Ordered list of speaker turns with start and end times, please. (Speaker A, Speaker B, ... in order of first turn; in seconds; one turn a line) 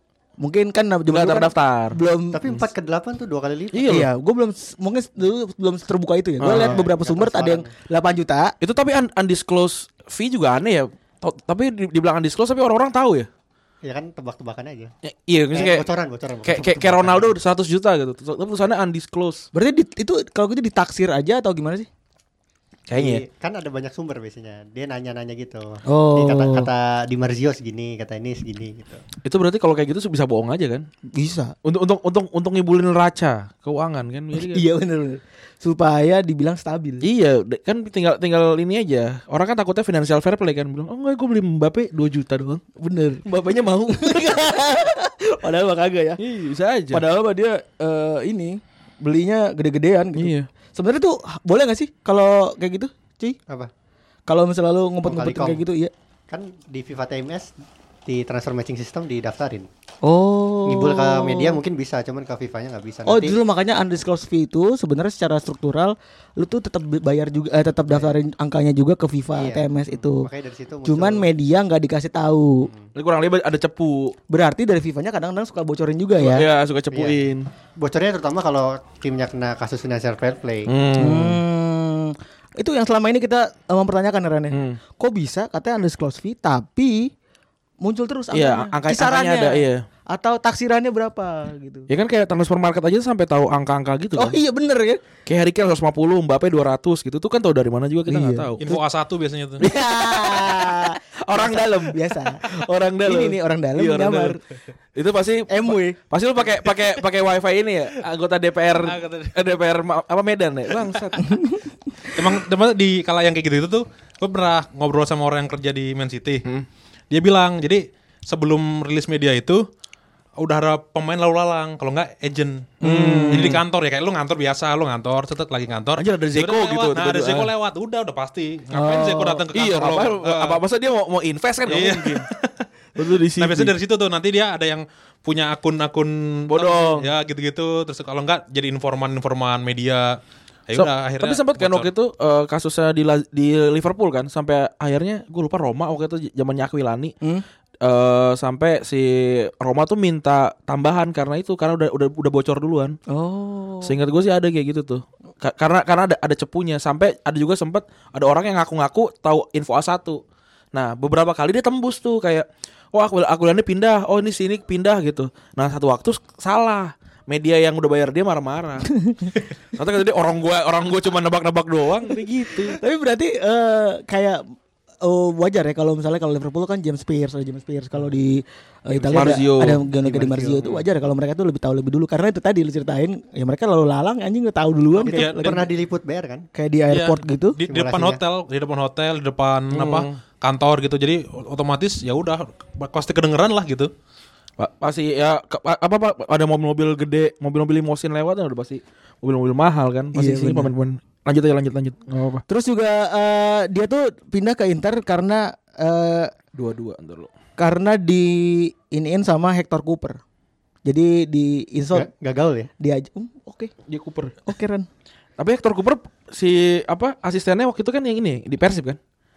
Speaker A: 0.4-2.4
Speaker B: 1.1-1.9
Speaker C: 2.3-4.0
Speaker B: 3.7-4.1
Speaker A: 3.9-8.5
Speaker B: 6.4-6.8
Speaker C: 6.5-7.7
Speaker B: 8.6-13.3
Speaker C: 13.8-14.9
Speaker B: 15.0-15.8
Speaker C: 15.5-17.4
Speaker B: 16.4-19.4
Speaker A: 19.5-21.9
Speaker B: 22.9-23.2
Speaker C: 22.9-29.0
Speaker A: 25.9-26.7
Speaker B: 29.2-30.9
Speaker A: 31.1-31.5
Speaker B: 31.6-34.6
Speaker A: 34.3-37.0
Speaker B: 37.0-42.6
Speaker A: 42.8-46.2
Speaker B: 43.3-44.1
Speaker B: 46.2-47.0
Speaker A: 46.9-53.4
Speaker B: 50.2-50.5
Speaker A: 54.3-55.9
Speaker C: 55.0-55.6
Speaker C: 56.3-57.5
Speaker C: 58.0-59.7
Speaker A: 60.0-61.6
Speaker C: 60.6-63.4
Speaker A: 63.0-70.3
Speaker C: 67.9-68.1
Speaker C: 69.3-71.3
Speaker A: 70.8-72.7
Speaker B: 72.9-74.2
Speaker A: 74.3-76.5
Speaker B: 76.2-77.5
Speaker C: 76.9-77.2
Speaker C: 77.8-80.7
Speaker B: 80.7-81.4
Speaker A: 81.0-87.1
Speaker B: 84.5-84.8
Speaker A: 87.8-91.9
Speaker B: 88.3-89.8
Speaker B: 91.9-94.4
Speaker A: 94.2-95.0
Speaker B: 95.2-98.7
Speaker A: 98.1-98.8
Speaker D: 98.6-99.6
Speaker A: 99.6-102.4
Speaker B: 99.8-104.4
Speaker A: 103.0-104.4
Speaker B: 104.9-111.3
Speaker A: 105.5-106.0
Speaker D: 108.8-109.3
Speaker A: 111.2-111.5
Speaker D: 112.1-116.4
Speaker D: 117.1-119.6
Speaker D: 120.4-130.6
Speaker A: 122.8-123.6
Speaker B: 122.8-123.6
Speaker B: 126.0-127.5
Speaker A: 128.8-129.3
Speaker B: 129.5-132.3
Speaker D: 131.7-132.6
Speaker B: 132.9-133.7
Speaker D: 133.4-140.2
Speaker B: 136.5-137.1
Speaker D: 140.7-141.9
Speaker B: 140.7-147.1
Speaker B: 147.8-153.0
Speaker A: 153.1-153.9
Speaker B: 153.8-160.2
Speaker B: 160.7-168.9
Speaker A: 169.0-169.3
Speaker B: 169.8-172.8
Speaker A: 172.7-174.4
Speaker A: 175.0-185.7
Speaker C: 178.9-179.2
Speaker B: 179.1-179.8
Speaker C: 179.9-180.8
Speaker D: 185.0-185.6
Speaker C: 185.0-186.4
Speaker A: 186.5-187.6
Speaker D: 186.9-193.9
Speaker C: 187.7-188.2
Speaker B: 189.7-190.1
Speaker B: 194.6-202.4
Speaker A: 200.1-200.7
Speaker A: 202.5-206.3
Speaker B: 206.5-207.3
Speaker A: 207.6-210.2
Speaker A: 210.8-212.1
Speaker C: 211.9-212.7
Speaker A: 212.8-213.7
Speaker B: 213.9-214.4
Speaker A: 214.5-214.9
Speaker B: 215.4-219.0